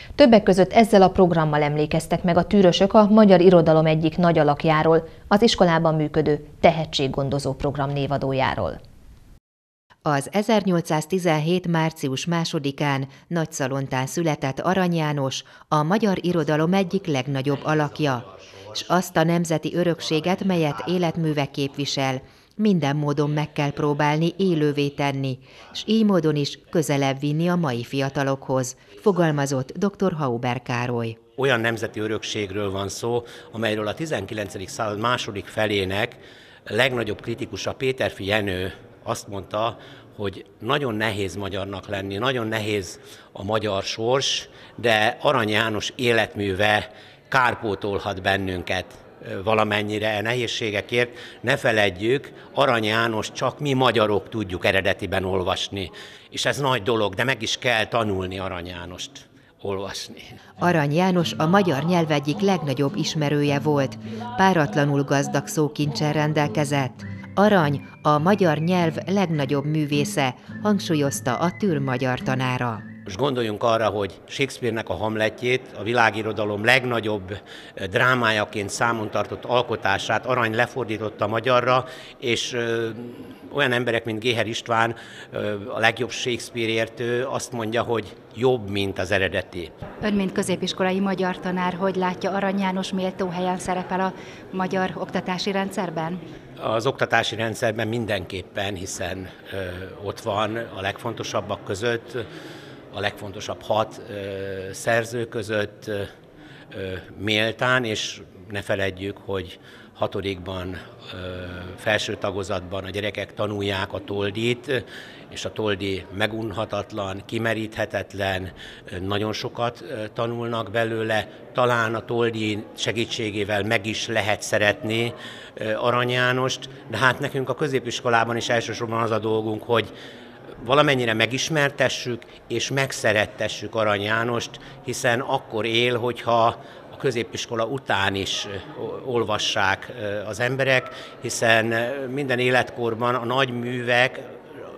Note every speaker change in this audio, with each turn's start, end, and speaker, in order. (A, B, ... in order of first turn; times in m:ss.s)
0:00.2-0:08.8 A
0:10.1-0:31.2 B
0:18.3-0:18.7 C
0:31.4-1:00.4 C
1:00.6-1:12.8 B
1:13.1-1:29.7 C
1:30.0-1:36.2 D
1:36.6-1:42.2 C
1:42.9-1:46.1 C
1:46.7-2:09.9 C
2:10.6-2:24.4 C